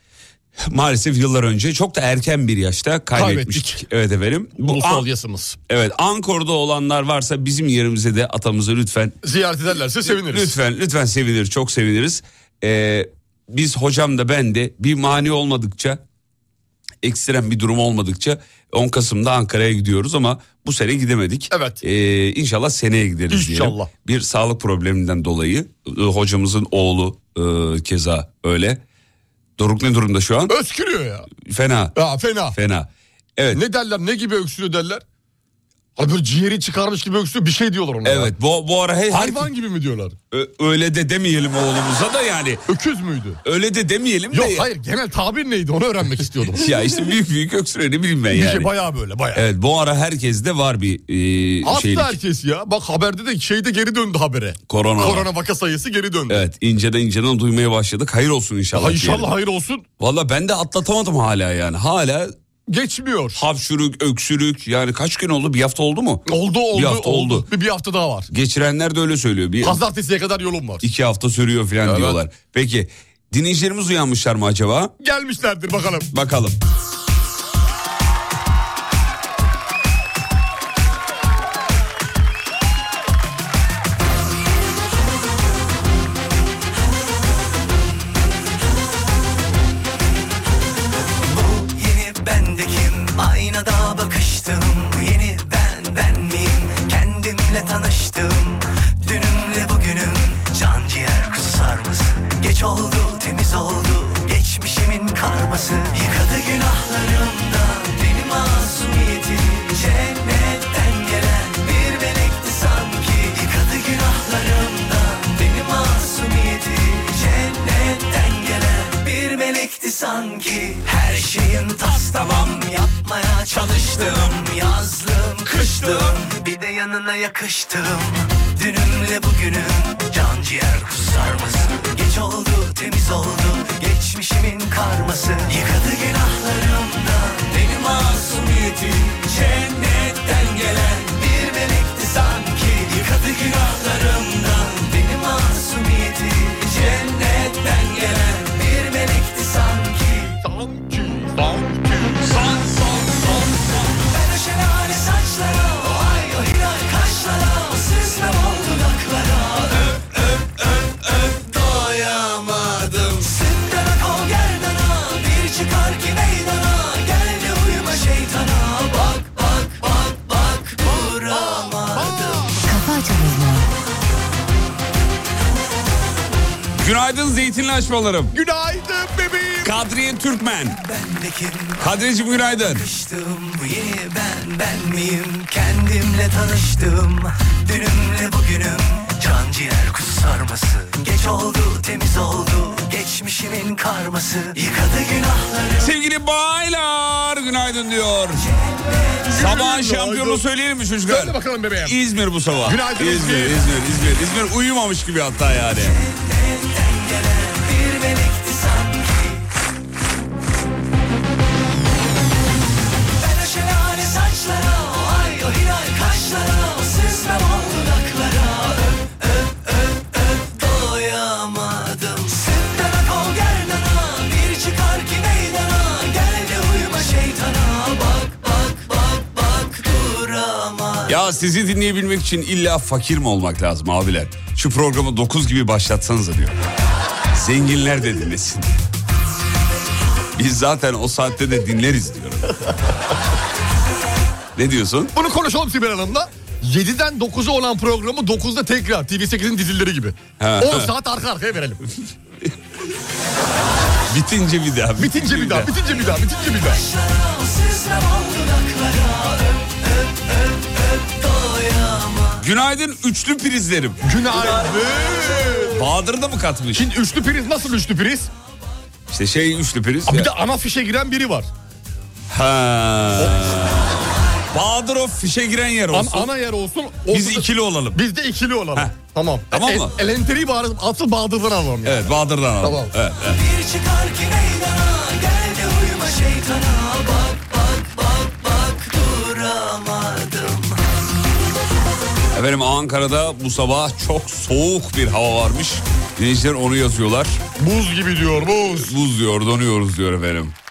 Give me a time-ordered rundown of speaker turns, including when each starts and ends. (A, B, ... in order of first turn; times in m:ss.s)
0:00.6-0:05.0 A
0:03.1-0:03.8 B
0:04.6-0:05.6 B
0:05.7-0:09.2 A
0:09.2-0:10.5 B
0:10.0-0:16.0 A
0:17.0-0:28.8 A
0:21.5-0:21.8 B
0:23.3-0:23.9 B
0:29.6-0:30.6 A
0:30.5-0:31.3 B
0:31.4-0:31.9 A
0:31.9-0:32.6 B
0:32.5-0:33.6 A
0:33.5-0:35.0 B
0:36.0-0:38.3 B
0:38.0-0:39.5 A
0:39.1-0:40.1 B
0:40.3-0:42.6 A
0:42.7-0:43.4 B
0:43.4-0:44.7 A
0:44.3-0:46.7 B
0:46.5-0:48.7 A
0:48.3-0:49.4 B
0:49.3-0:52.2 A
0:51.6-0:56.4 B
0:54.7-0:55.3 A
0:56.3-0:59.3 A
0:58.7-0:59.8 B
1:00.0-1:02.3 A
1:02.7-1:03.4 B
1:03.3-1:07.4 A
1:06.3-1:08.3 B
1:08.3-1:09.8 A
1:09.6-1:10.8 B
1:10.8-1:14.9 A
1:11.8-1:12.2 B
1:15.0-1:16.1 B
1:16.1-1:16.6 A
1:31.2-2:30.4 C
2:30.4-2:32.5 B
2:33.3-2:33.5 B
2:33.9-2:52.6 C
2:50.9-2:52.8 B
2:56.8-2:58.3 A
2:58.3-2:59.8 B
2:59.6-3:00.8 A
3:00.8-3:01.9 C
3:01.8-3:02.8 A
3:02.6-3:15.9 C
3:15.8-3:18.4 A
3:18.4-3:19.2 C
3:19.3-3:20.4 B
3:19.3-3:26.0 A
3:21.1-3:22.0 B
3:22.6-3:23.6 B
3:25.8-3:29.4 C
3:33.2-3:51.2 C
3:51.1-3:56.5 A
3:57.3-3:58.7 A
4:00.3-4:02.6 A
4:04.6-4:05.1 A
4:05.1-4:11.8 B
4:10.4-4:10.9 A
4:14.1-4:15.7 A
4:15.0-4:16.8 B
4:16.4-4:22.4 C
4:22.4-4:24.8 A
4:24.0-4:25.8 B
4:25.4-4:26.9 A
4:26.7-4:28.3 B
4:29.1-4:30.3 A
4:30.1-4:31.5 B
4:32.3-4:36.3 A
4:35.9-4:42.9 B
4:37.1-4:38.0 A
4:39.5-4:39.9 A
4:41.8-4:43.4 A
4:43.2-4:50.8 C
4:52.3-4:57.4 A
4:57.6-4:58.9 B
4:58.4-5:00.5 A